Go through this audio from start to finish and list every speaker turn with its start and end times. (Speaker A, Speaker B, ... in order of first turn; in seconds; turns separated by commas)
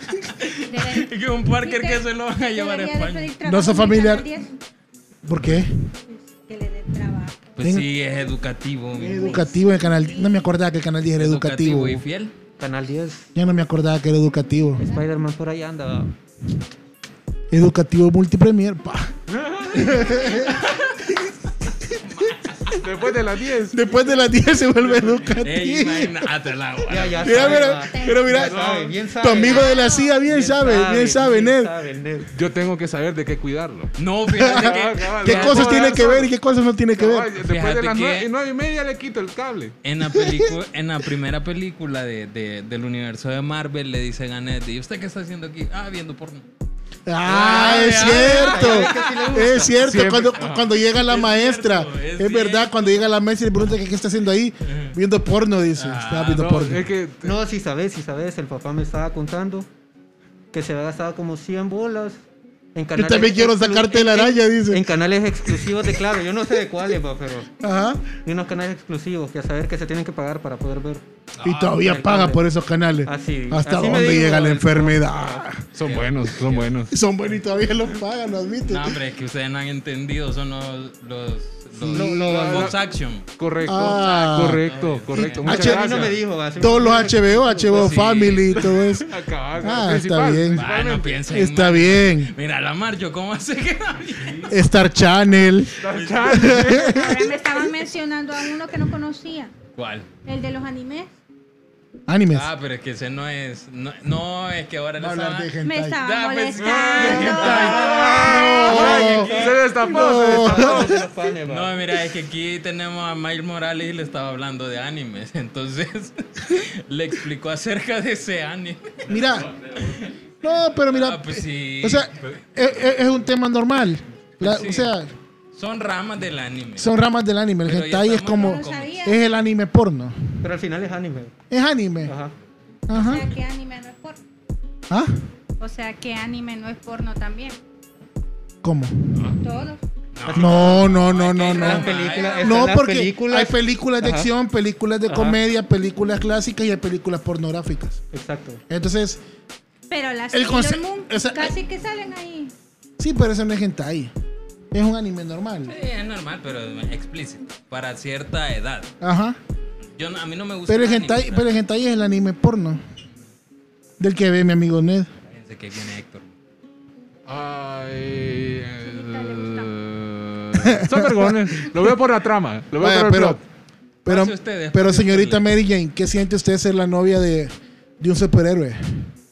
Speaker A: 0.4-3.4, Speaker B: 0.7-4.5, Speaker C: 3.4-4.3, Speaker C: 5.2-5.8, Speaker B: 6.1-7.6, Speaker A: 7.5-9.4, Speaker C: 7.6-7.9, Speaker C: 9.0-12.0, Speaker B: 9.1-10.3, Speaker A: 11.1-12.3, Speaker D: 12.6-13.3, Speaker C: 13.3-14.9, Speaker D: 14.8-16.1, Speaker C: 17.5-19.1, Speaker E: 19.3-20.2, Speaker C: 19.7-22.2, Speaker E: 22.7-24.1, Speaker C: 23.7-26.3, Speaker E: 24.8-25.3, Speaker A: 25.4-27.7, Speaker D: 26.9-32.3, Speaker C: 27.2-28.6, Speaker B: 27.8-28.4, Speaker E: 28.4-28.9, Speaker C: 29.1-31.7, Speaker B: 29.4-30.1, Speaker E: 32.3-36.3, Speaker A: 34.0-36.0, Speaker C: 34.4-37.3, Speaker E: 36.9-39.8, Speaker A: 37.4-38.3, Speaker A: 39.8-46.5, Speaker C: 47.1-56.9, Speaker A: 47.3-48.9, Speaker D: 47.3-49.8, Speaker E: 49.7-50.7, Speaker A: 50.9-53.0, Speaker A: 54.6-55.0, Speaker A: 55.8-56.5, Speaker E: 56.3-57.4, Speaker D: 57.2-59.7, Speaker D: 60.5-62.2, Speaker D: 62.8-67.5, Speaker C: 62.9-64.8, Speaker C: 67.6-68.1, Speaker D: 68.2-71.0, Speaker A: 71.4-71.8, Speaker C: 71.4-75.7, Speaker D: 71.8-72.4, Speaker D: 73.1-75.1, Speaker E: 75.8-76.9, Speaker A: 75.8-76.7, Speaker C: 76.9-79.0, Speaker A: 78.7-83.3, Speaker C: 81.7-82.2, Speaker D: 81.9-82.7, Speaker E: 82.2-82.8, Speaker E: 83.4-86.2, Speaker C: 83.7-86.1, Speaker A: 84.4-85.7, Speaker D: 85.5-87.9, Speaker C: 86.6-90.7, Speaker A: 87.7-88.7, Speaker E: 88.6-91.3, Speaker A: 90.5-94.5, Speaker C: 91.3-92.3, Speaker C: 94.5-97.2, Speaker E: 95.8-97.2, Speaker A: 95.9-96.6, Speaker B: 96.9-99.5, Speaker A: 99.8-100.1, Speaker B: 100.2-101.1, Speaker C: 102.1-102.5, Speaker A: 102.3-109.5, Speaker C: 105.0-106.0, Speaker B: 105.6-107.9, Speaker E: 106.6-110.9, Speaker C: 108.0-111.0, Speaker D: 108.0-111.8, Speaker A: 111.5-120.2, Speaker C: 119.1-119.5, Speaker C: 120.4-125.1, Speaker A: 120.8-122.1, Speaker A: 124.4-124.9, Speaker A: 125.5-126.9, Speaker C: 126.8-130.2, Speaker A: 127.6-129.0, Speaker B: 128.4-129.2, Speaker D: 130.4-131.3, Speaker C: 131.5-132.1, Speaker D: 132.1-132.3, Speaker C: 132.9-133.3, Speaker B: 132.9-134.2, Speaker C: 134.9-135.1, Speaker B: 135.6-137.6, Speaker C: 138.6-139.4, Speaker B: 139.4-139.8, Speaker A: 140.1-142.7, Speaker D: 140.3-140.8, Speaker C: 140.3-148.0, Speaker D: 141.5-144.3, Speaker D: 145.1-145.4, Speaker D: 148.1-148.6, Speaker C: 148.7-149.2, Speaker B: 149.9-152.5, Speaker C: 150.3-151.6, Speaker C: 153.0-154.1, Speaker C: 154.7-155.7, Speaker A: 155.7-158.9, Speaker C: 159.0-159.4, Speaker A: 159.9-161.6, Speaker C: 160.7-162.8, Speaker C: 164.0-165.1, Speaker A: 165.3-166.3, Speaker E: 167.3-173.4, Speaker B: 168.8-169.7, Speaker C: 170.6-171.7, Speaker C: 172.8-173.4, Speaker C: 174.1-179.1, Speaker A: 174.1-175.5